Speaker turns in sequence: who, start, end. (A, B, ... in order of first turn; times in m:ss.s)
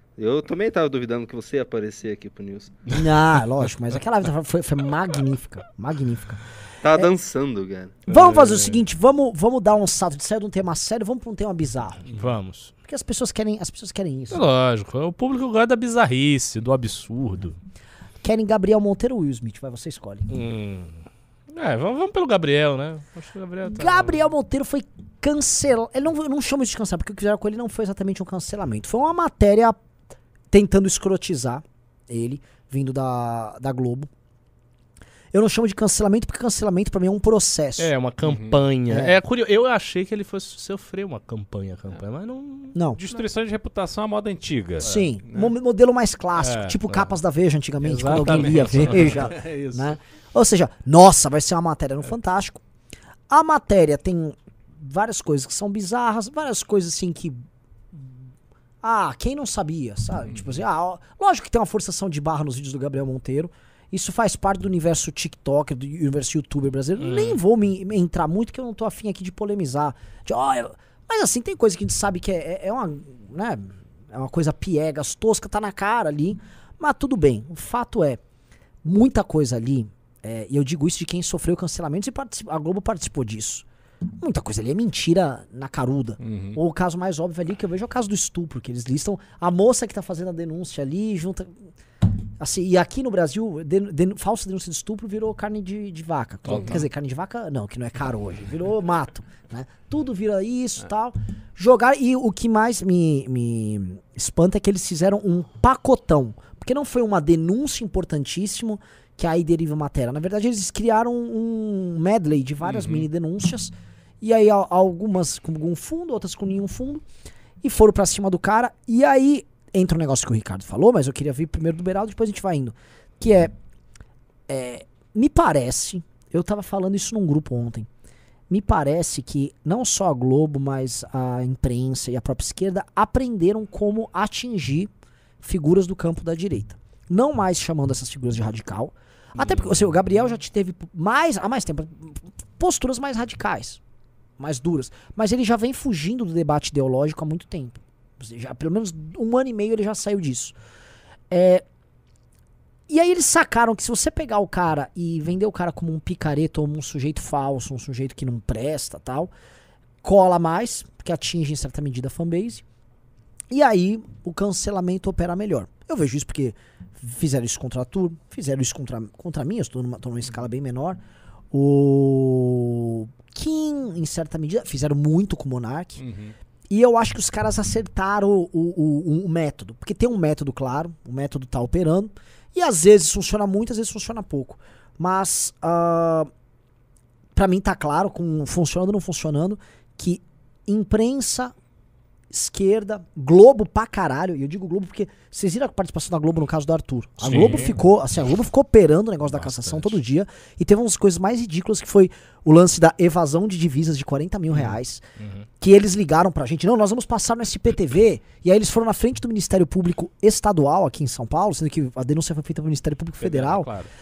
0:00.2-0:02.7 A
0:02.9-0:06.4 B
0:06.8-0:08.0 A
0:08.1-0:12.0 B
0:08.1-0:08.8 C
0:12.1-0:12.7 C
0:12.9-0:14.4 B
0:14.3-0:17.6 C
0:18.2-0:20.3 B
0:20.3-0:24.2 C
0:23.7-0:29.8 B
0:30.5-0:34.1 B
0:35.3-0:37.9 B
0:37.8-0:43.2 C
0:38.2-0:38.6 D
0:38.9-0:39.2 B
0:42.7-0:43.0 B
0:43.0-0:45.5 D
0:44.8-0:52.6 B
0:46.4-0:46.8 D
0:47.8-0:49.9 D
0:48.2-0:49.2 C
0:53.3-0:58.1 B
0:58.8-1:18.2 B
1:07.0-1:07.4 C
1:18.8-1:23.6 B
1:24.2-1:31.6 B
1:26.2-1:26.6 D
1:32.4-1:57.0 B
1:36.5-1:36.8 D
1:52.6-1:53.1 D
1:57.6-2:03.5 B
2:04.5-2:07.9 B
2:08.5-2:14.9 B
2:15.4-2:23.8 B
2:24.4-2:30.5 B
2:31.3-2:31.6 B
2:32.9-2:39.3 B
2:40.0-2:42.6 B
2:43.5-2:51.0 B
2:51.5-2:56.0 B
2:56.0-2:56.3 D
2:56.7-3:06.3 B
3:07.3-3:11.5 B
3:12.3-3:25.0 B
3:17.2-3:17.8 C
3:19.3-3:20.0 C
3:24.5-3:25.4 C
3:25.6-3:33.7 B
3:33.2-3:33.8 C